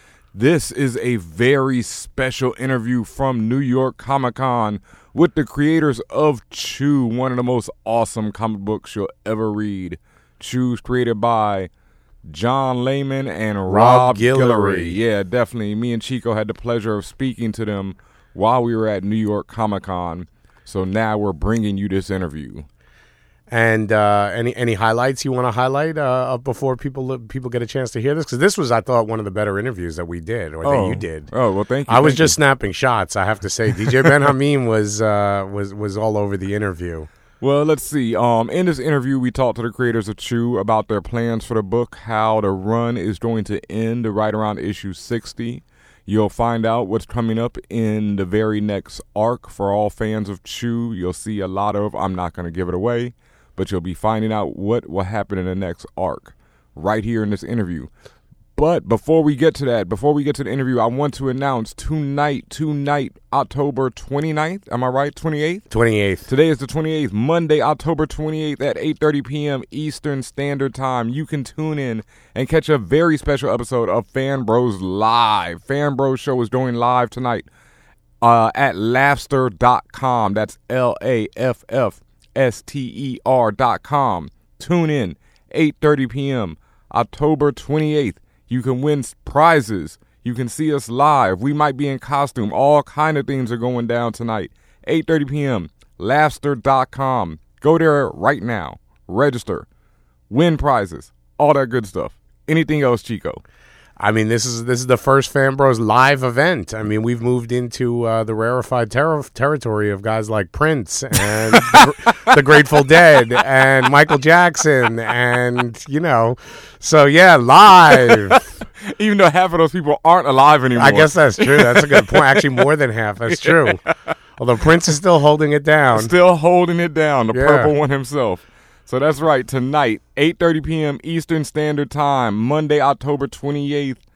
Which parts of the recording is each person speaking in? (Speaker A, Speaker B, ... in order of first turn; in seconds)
Speaker A: 0.3-11.7, 12.3-22.7, 30.6-32.4, 37.4-57.9, 58.6-65.7, 66.3-77.5, 78.2-99.7, 100.3-103.4, 111.3-111.8, 117.9-122.6, 123.3-123.9, 125.9-134.0
Speaker B: 13.7-15.0, 23.5-31.3, 31.9-37.1, 65.7-66.3, 104.0-118.5, 120.7-123.8, 124.4-126.1, 127.3-127.7